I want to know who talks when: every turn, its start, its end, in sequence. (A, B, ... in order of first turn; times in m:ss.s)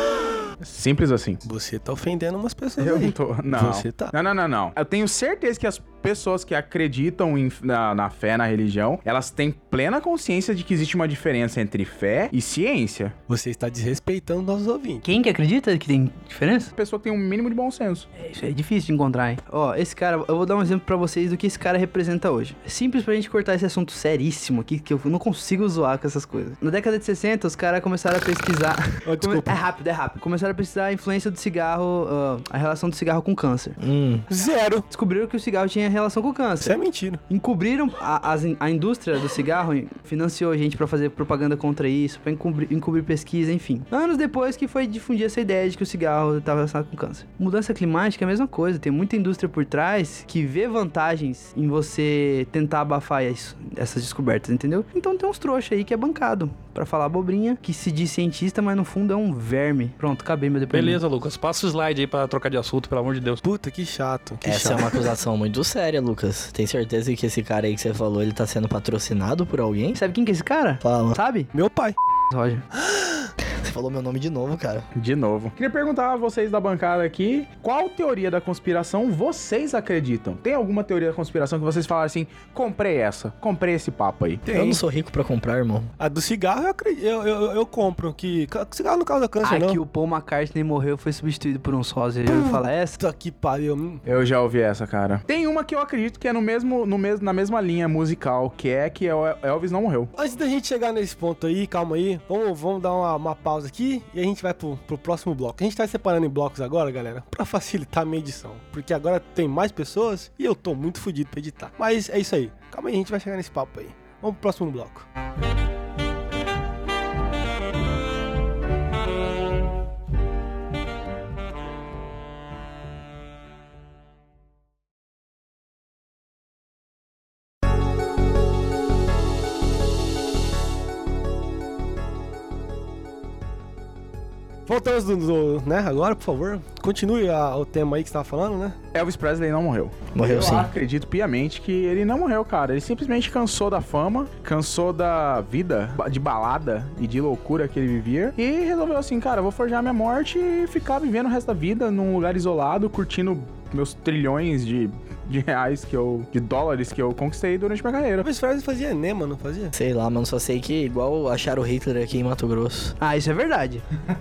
0:00.6-0:01.4 A
0:01.4-0:04.1 B
0:02.8-0:13.1 A
0:13.3-0:15.0 B
0:15.0-0:16.7 C
0:16.8-0:18.1 A
0:18.2-0:33.8 C
0:29.0-0:29.6 B
0:33.8-0:34.3 D
0:34.3-0:34.9 B
0:34.9-0:36.7 C
0:36.6-0:37.2 B
0:37.3-1:01.0 C
1:00.7-1:03.4 E
1:03.4-1:05.0 B
1:04.4-1:10.0 D
1:10.0-1:11.5 C
1:10.8-1:11.2 D
1:11.5-1:12.0 B
1:12.3-1:12.6 C
1:12.8-1:13.3 B
1:13.4-1:14.9 D
1:15.0-1:24.5 A
1:24.5-1:25.9 D
1:26.0-1:29.8 B
1:29.4-1:33.0 C
1:32.3-1:34.0 B
1:34.1-1:40.1 A
1:40.2-1:55.1 B
2:14.7-2:18.8 B
2:18.9-2:38.3 A
2:20.1-2:20.7 D
2:38.2-2:39.7 B
2:39.7-2:43.0 D
2:43.0-2:43.8 C